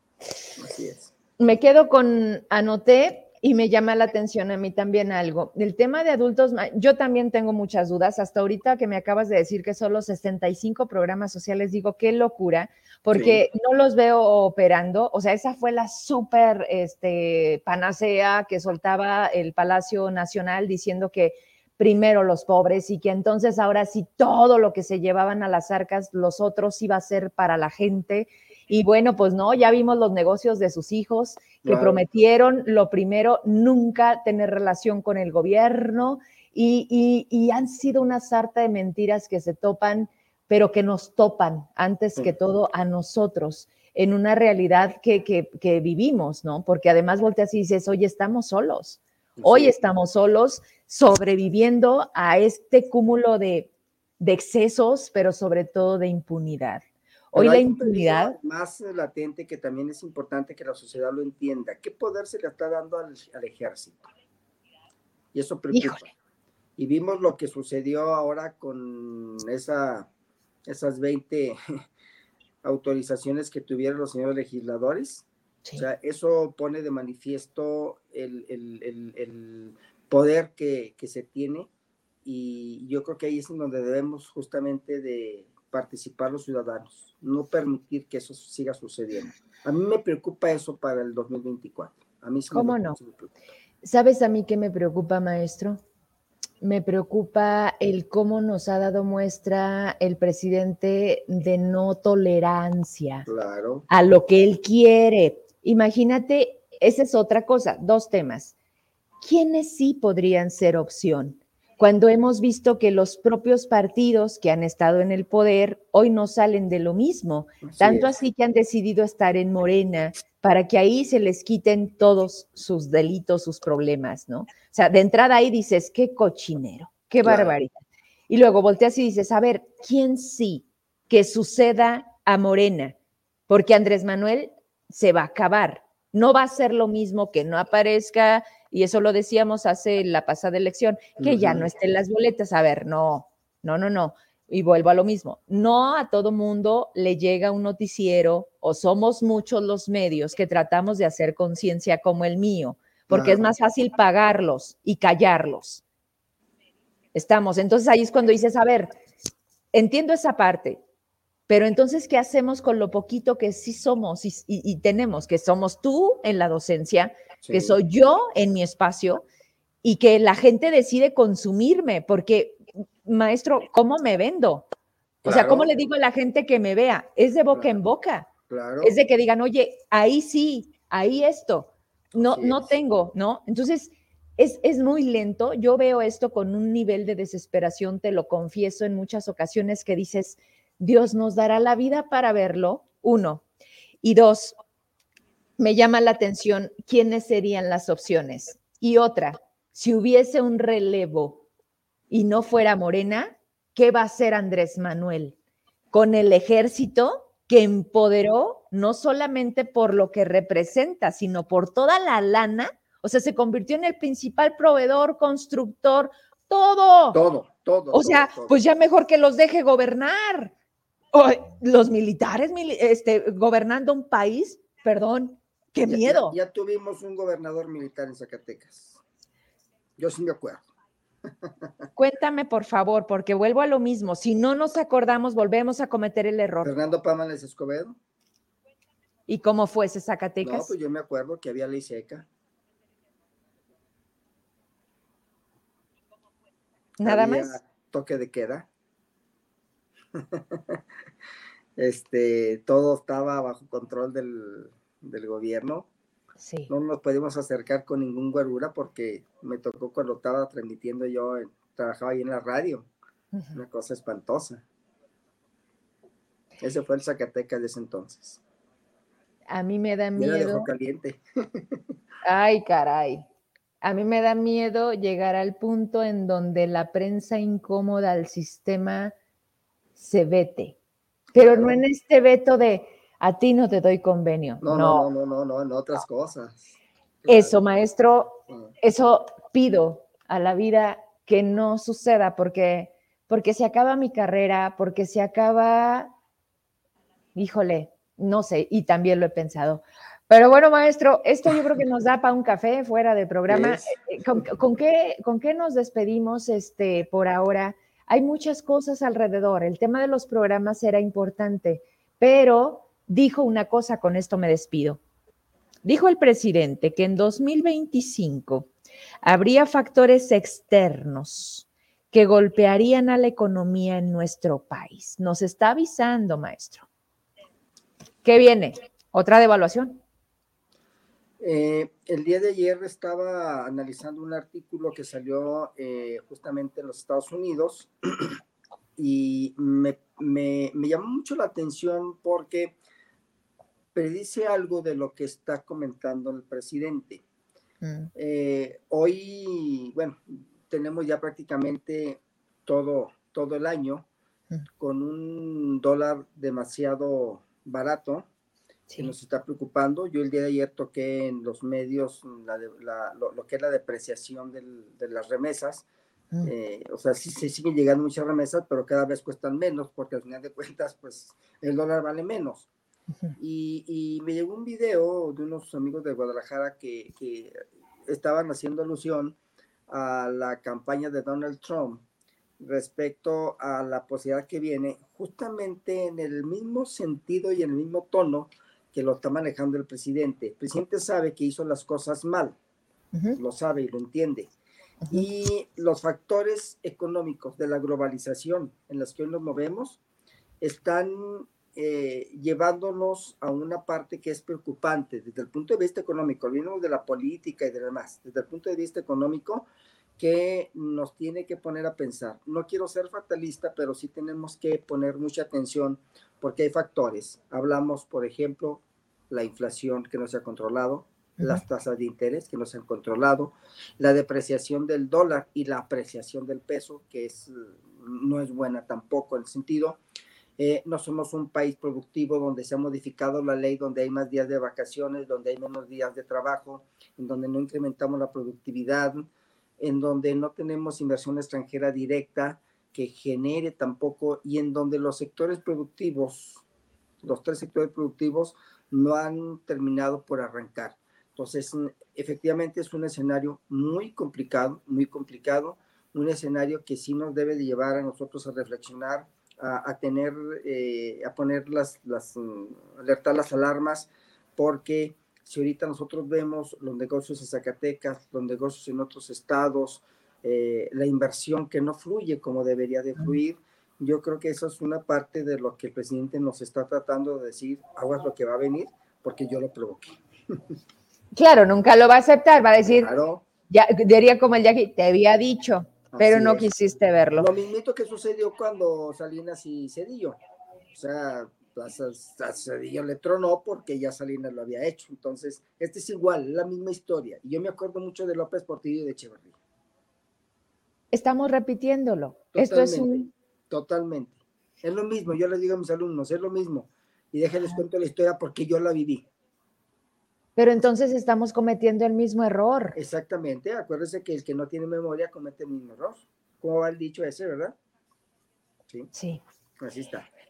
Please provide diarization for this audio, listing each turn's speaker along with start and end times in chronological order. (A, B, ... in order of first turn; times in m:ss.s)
0:00.6-0:01.1 A
0:01.4-0:58.4 B
0:13.1-0:13.4 A
0:31.6-0:32.0 A
0:49.4-0:49.7 A
0:57.4-1:04.1 A
1:05.3-1:06.1 A
1:05.7-1:06.0 B
1:06.8-1:10.1 A
1:10.7-1:11.6 A
1:12.6-1:21.7 A
1:22.2-1:33.3 A
1:32.5-1:33.0 B
1:33.8-1:35.8 B
1:36.6-1:43.3 B
1:43.3-1:43.9 A
1:43.9-1:48.5 B
1:49.2-2:07.7 B
1:57.6-1:58.1 A
2:07.2-2:07.5 A
2:08.3-2:13.0 B
2:13.5-2:35.8 B
2:21.2-2:21.7 A
2:33.1-2:33.5 A
2:37.1-2:39.0 B
2:39.7-2:40.8 B
2:41.5-2:49.2 B
2:47.4-2:47.8 A
2:49.8-2:54.7 B
2:55.2-2:55.7 A
2:55.3-2:58.3 B
2:58.5-2:58.9 A
2:58.8-3:13.4 B
3:02.2-3:02.6 A
3:14.0-3:14.6 B
3:15.6-3:21.4 B
3:22.1-3:25.4 B
3:25.9-3:37.2 B
3:37.1-3:38.6 A
3:37.9-3:40.5 B
3:41.1-3:46.4 B
3:45.9-3:49.0 A
3:50.0-3:50.6 A
3:52.0-3:56.7 B
3:56.6-3:58.0 A
3:59.3-4:00.7 B
4:00.4-4:02.3 A
4:07.0-4:07.6 B
4:07.0-4:08.7 A
4:10.2-4:10.8 A
4:11.8-4:15.9 A
4:16.4-4:16.7 B
4:16.7-4:22.9 A
4:23.3-4:23.6 B
4:23.5-4:24.6 A
4:26.6-4:28.4 A
4:29.5-4:30.7 B
4:30.2-4:31.8 A
4:32.2-4:33.3 B
4:33.8-4:39.1 B
4:40.0-4:40.8 B
4:41.3-4:41.8 A
4:41.4-4:45.1 B
4:44.6-4:47.6 A
4:47.3-4:56.1 B
4:48.5-4:48.7 A
4:57.4-5:15.0 B
5:03.5-5:03.9 A
5:15.8-5:18.7 B
5:19.2-5:26.9 B
5:28.2-5:30.0 B
5:31.4-5:38.4 A
5:39.0-5:42.8 A
5:44.0-5:47.2 A
5:47.8-5:48.1 B
5:48.2-5:54.1 A
5:54.8-5:58.3 A
5:59.0-6:05.9 A
6:06.4-6:12.7 A
6:13.4-6:19.4 A
6:19.9-6:22.0 A
6:22.6-6:32.6 A
6:33.4-6:34.5 A
6:35.1-6:40.0 A
6:40.6-6:49.7 A
6:50.2-7:10.0 A
7:10.6-7:19.3 A
7:19.8-7:26.6 A
7:27.2-8:00.6 A
8:01.4-8:03.1 B
8:02.8-8:03.4 A
8:03.7-8:07.5 B
8:06.1-8:06.7 A
8:07.4-8:10.4 A
8:10.9-8:19.6 A
8:21.1-8:23.3 B
8:22.5-8:29.3 A
8:30.6-8:33.0 B
8:33.0-8:37.8 A
8:39.1-8:39.4 B
8:39.8-8:40.3 A